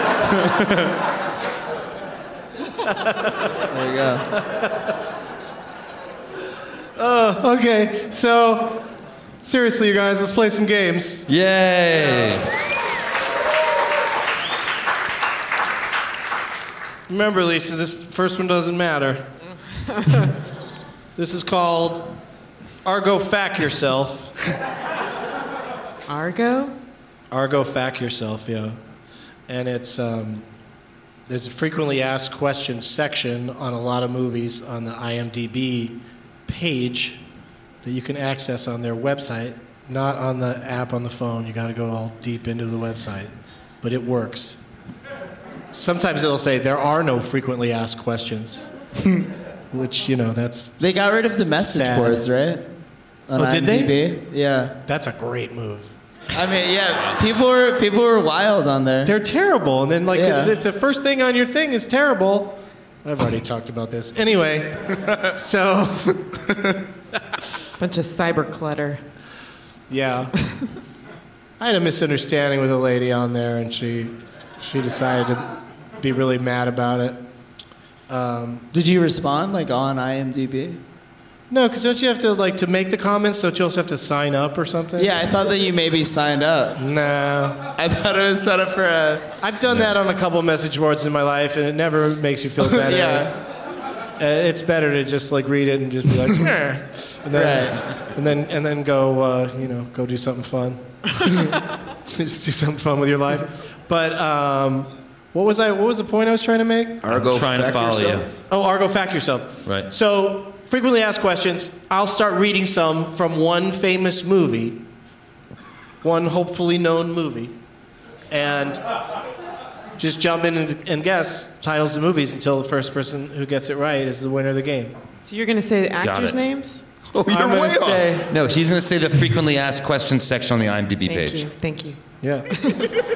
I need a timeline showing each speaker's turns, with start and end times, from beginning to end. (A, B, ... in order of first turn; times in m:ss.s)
0:00.4-0:00.8 A
0:03.6-0:04.3 A
0:07.0-0:08.9 B
0:09.4-0:11.3 B
0:11.3-0:12.5 C
0:12.0-0:12.3 B
0:17.1-0:19.2 B
0:21.2-0:22.2 B
0:22.8-0:24.3 B
0:26.1-0:26.7 D
0:27.3-0:28.8 B
0:29.5-0:30.4 B
0:31.3-0:37.2 B
0:37.8-0:43.3 B
0:43.8-0:44.6 B
0:45.7-0:48.7 B
0:49.7-0:51.0 B
0:50.8-0:52.7 A
0:51.5-0:52.2 B
0:53.3-0:54.8 A
0:53.4-0:54.0 B
0:54.8-0:55.9 B
0:56.3-0:59.1 A
0:59.0-1:06.3 B
1:00.1-1:00.5 A
1:07.8-1:09.0 D
1:09.9-1:10.3 B
1:11.6-1:15.5 B
1:16.0-1:17.2 B
1:18.1-1:18.6 B
1:18.7-1:20.8 A
1:21.5-1:25.1 B
1:25.0-1:26.8 A
1:26.8-1:27.6 B
1:27.8-1:29.3 A
1:29.4-1:33.3 B
1:32.6-1:33.4 A
1:34.2-1:41.6 B
1:37.3-1:37.8 A
1:42.1-1:47.0 B
1:47.0-1:48.2 E
1:47.1-1:48.3 C
1:48.5-1:54.8 B
1:56.0-1:57.5 B
1:58.3-1:58.8 B
2:00.0-2:05.0 B
2:05.2-2:06.8 D
2:06.0-2:06.4 C
2:07.1-2:08.1 E
2:07.2-2:08.3 B
2:08.3-2:11.5 C
2:11.0-2:12.0 D
2:12.2-2:12.5 B
2:12.5-2:12.9 D